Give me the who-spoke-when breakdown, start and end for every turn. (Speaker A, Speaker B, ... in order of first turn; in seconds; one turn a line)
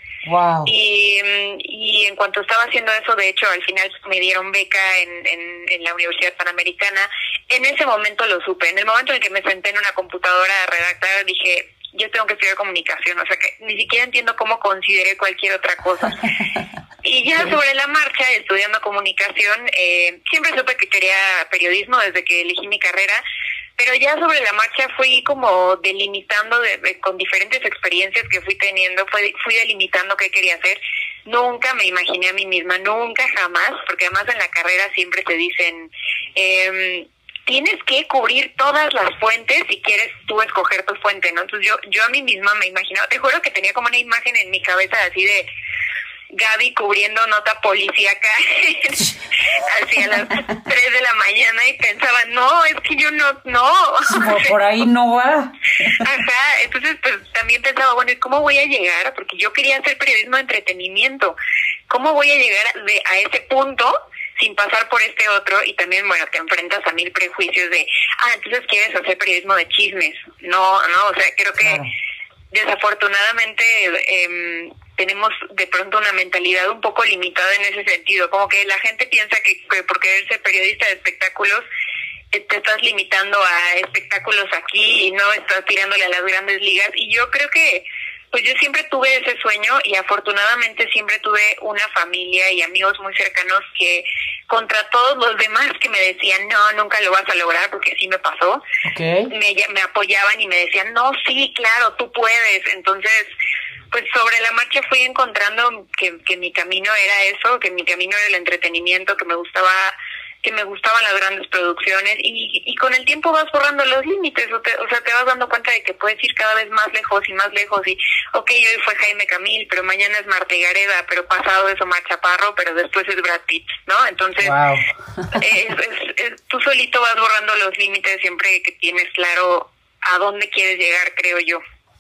Speaker A: 0.3-0.7
Speaker B: 0.7-16.3
Speaker B: 17.0-23.2
Speaker B: 23.8-45.5
Speaker B: 46.3-54.5
Speaker A: 50.1-50.3
Speaker A: 54.1-56.0
Speaker B: 56.0-61.4
Speaker B: 61.9-71.8
Speaker A: 71.6-71.9
Speaker B: 72.5-81.6
Speaker B: 82.3-98.6
Speaker A: 98.8-99.3
Speaker B: 99.3-103.3
Speaker B: 103.9-124.6
Speaker A: 124.4-125.4
Speaker B: 125.3-131.6